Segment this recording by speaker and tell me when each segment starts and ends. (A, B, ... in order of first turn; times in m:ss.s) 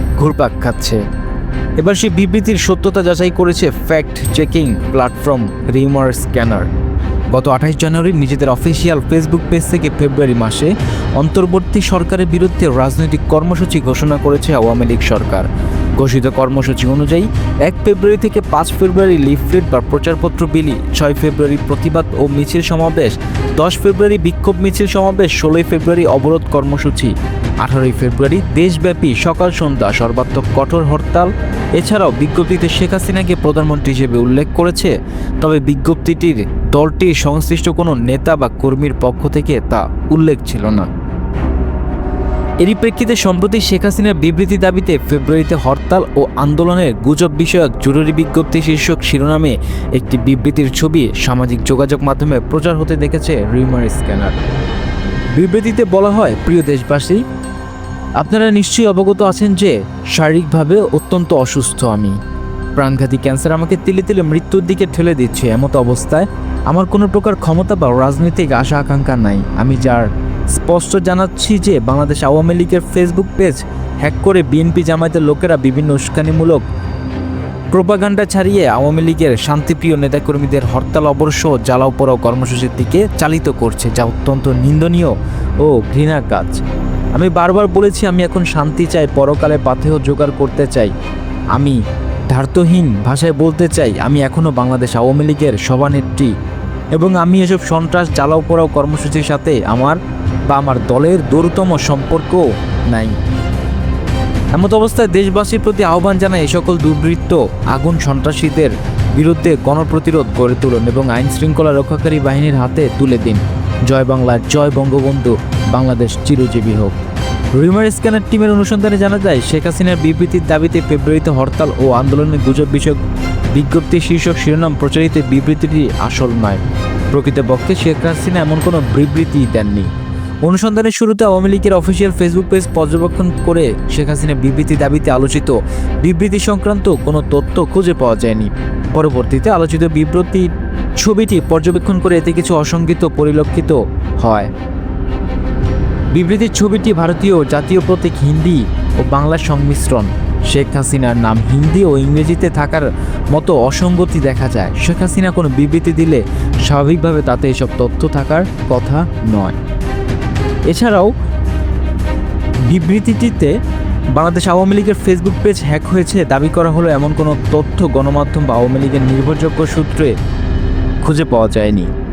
0:00.2-0:01.0 A
0:01.8-0:06.7 A
0:07.3-0:40.9 A
0:42.6-0:54.4 A
0:55.3-0:57.2 A
0:58.2-1:02.2 A
1:02.8-1:16.6 A
1:17.7-1:26.6 A
1:27.1-1:30.9 A
1:31.5-1:36.3 A
1:37.0-1:40.0 A
1:40.5-1:43.2 A
1:44.5-1:57.0 A
1:57.5-2:03.0 A
2:03.5-2:09.9 A
2:10.4-2:24.5 A
2:26.1-2:39.6 A
2:40.7-2:41.1 A
2:42.6-2:43.5 A
2:44.1-2:50.1 A
2:51.0-2:51.9 A